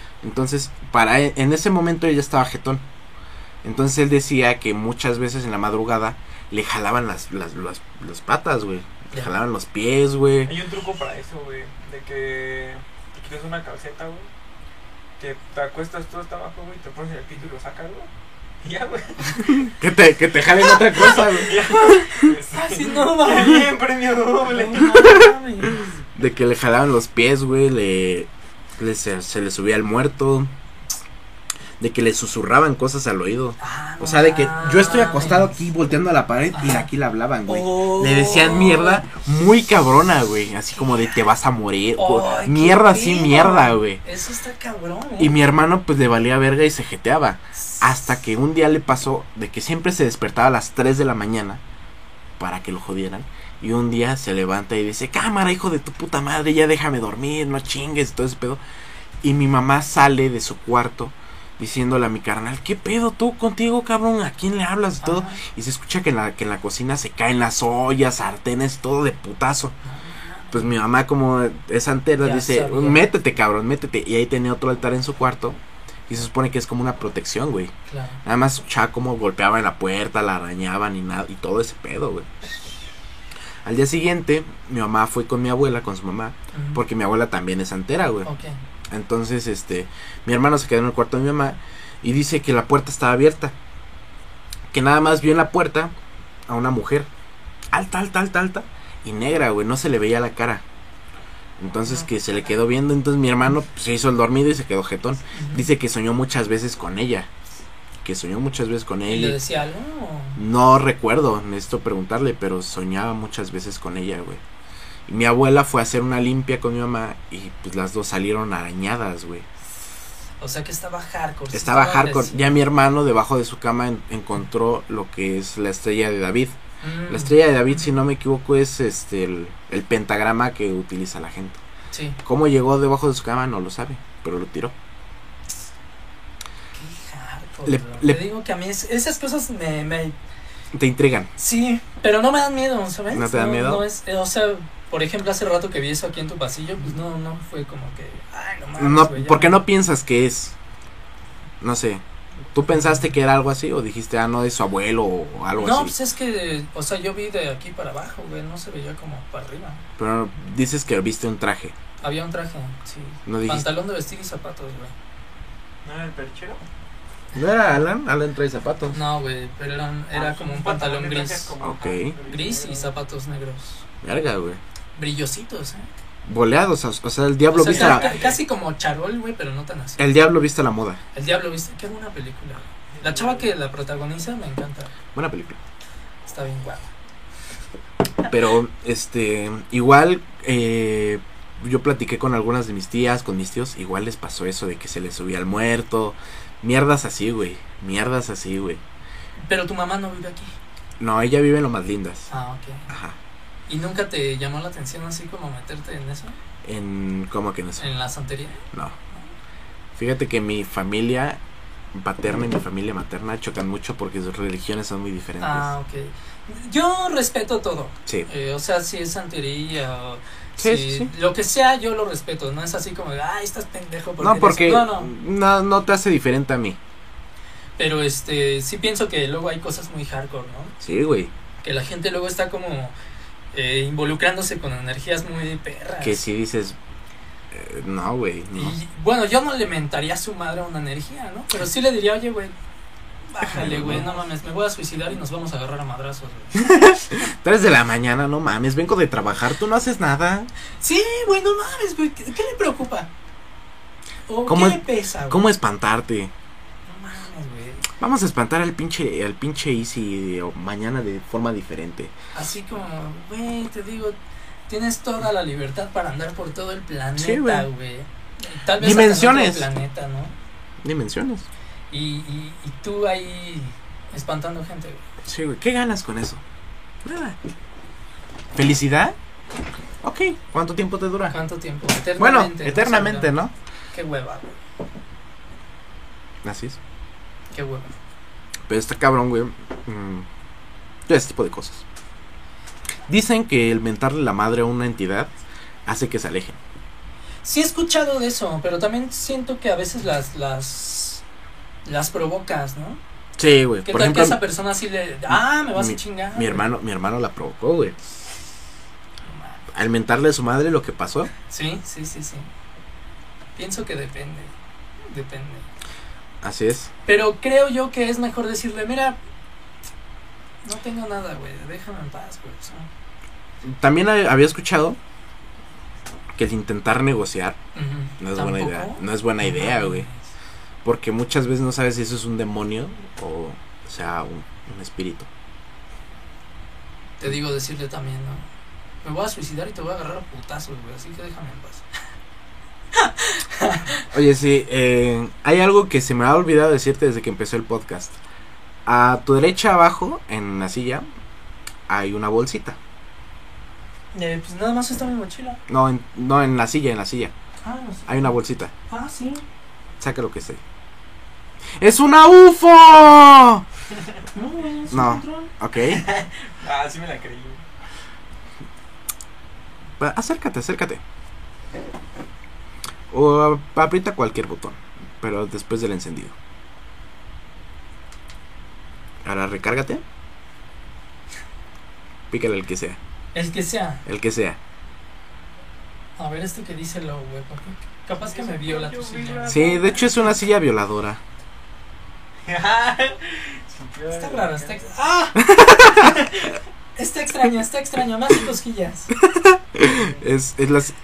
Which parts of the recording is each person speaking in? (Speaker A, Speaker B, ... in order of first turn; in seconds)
Speaker A: 0.2-2.8, 3.6-10.6, 19.5-21.7, 25.0-25.3, 26.1-30.5, 31.8-44.0, 45.2-51.6, 52.4-58.6, 59.2-69.7, 70.5-75.6, 76.1-77.7, 78.2-82.3, 83.7-88.3, 88.9-93.5, 94.7-95.9, 96.5-97.1, 97.7-100.6, 101.6-107.3, 108.0-109.4, 110.4-114.4, 115.1-119.5, 121.5-126.6, 127.1-131.6, 132.2-134.7, 137.7-138.2, 140.7-141.3, 143.1-143.8, 148.8-150.6, 151.6-152.0, 152.5-155.9, 160.0-161.7, 163.3-163.7, 167.3-169.0, 171.6-172.2, 174.0-174.6, 176.3-178.1, 180.0-181.0, 185.1-185.6, 188.3-198.8, 201.0-202.3, 202.9-203.2, 206.6-207.9, 210.0-211.4, 211.9-215.7, 220.6-221.1, 224.2-226.8, 230.8-231.3, 236.0-236.8, 237.5-238.8, 243.4-244.1, 246.6-250.5, 254.5-256.3, 258.0-262.1, 267.2-267.7, 268.8-269.7, 270.8-271.5, 275.2-276.4, 277.0-277.4, 278.6-279.2, 280.0-281.4, 282.2-283.5, 286.4-286.8, 288.7-290.3, 291.1-291.8, 293.1-295.3, 295.9-296.6, 303.4-304.4, 305.3-307.9, 309.7-311.3, 316.4-316.9, 323.6-325.0, 326.4-327.6, 328.2-330.1, 330.8-335.3, 344.1-348.2, 348.9-351.1, 351.9-352.8, 355.7-357.3, 358.1-358.7, 360.0-360.6, 361.8-363.6, 364.9-366.0, 370.0-371.0, 373.1-376.3, 379.2-380.0, 382.3-383.0, 384.1-384.6, 389.5-391.2, 395.4-396.3, 399.2-400.9
Speaker B: 10.4-14.3, 15.2-18.1, 18.6-19.6, 20.7-25.3, 165.8-166.6, 170.1-172.9, 177.7-178.4, 183.0-183.5, 366.3-367.6, 388.2-390.1, 392.4-394.8, 399.8-400.2
Speaker C: 20.8-23.7, 24.4-25.9, 33.6-35.6, 36.5-36.9, 37.5-39.0, 40.8-41.2, 42.0-45.4, 65.0-65.4, 69.8-70.7, 72.2-73.0, 77.9-78.2, 86.5-86.8, 88.2-88.6, 105.3-105.7, 109.1-110.4, 120.4-122.5, 126.8-127.9, 131.9-132.2, 136.7-140.2, 141.4-149.6, 155.6-159.8, 162.0-164.9, 168.9-171.6, 172.3-173.9, 175.0-175.9, 177.5-180.0, 181.1-184.9, 186.3-186.9, 199.4-200.5, 202.3-202.9, 203.7-206.4, 207.8-209.3, 215.4-225.1, 227.8-230.7, 231.6-232.9, 233.5-236.2, 238.6-242.5, 243.3-246.7, 250.8-253.1, 254.3-255.4, 256.9-257.9, 262.4-264.2, 264.7-270.3, 271.9-275.0, 281.3-283.4, 283.9-284.6, 287.5-287.9, 297.4-301.2, 301.9-303.0, 303.9-306.7, 309.3-309.6, 311.5-312.5, 313.6-314.5, 315.1-315.7, 317.1-319.2, 320.6-322.9, 327.8-330.2, 337.2-338.5, 339.0-341.9, 342.9-344.1, 354.1-355.6, 357.6-358.4, 358.9-359.4, 364.3-365.5, 383.3-384.0, 386.2-390.1, 394.1-395.4, 396.0-399.1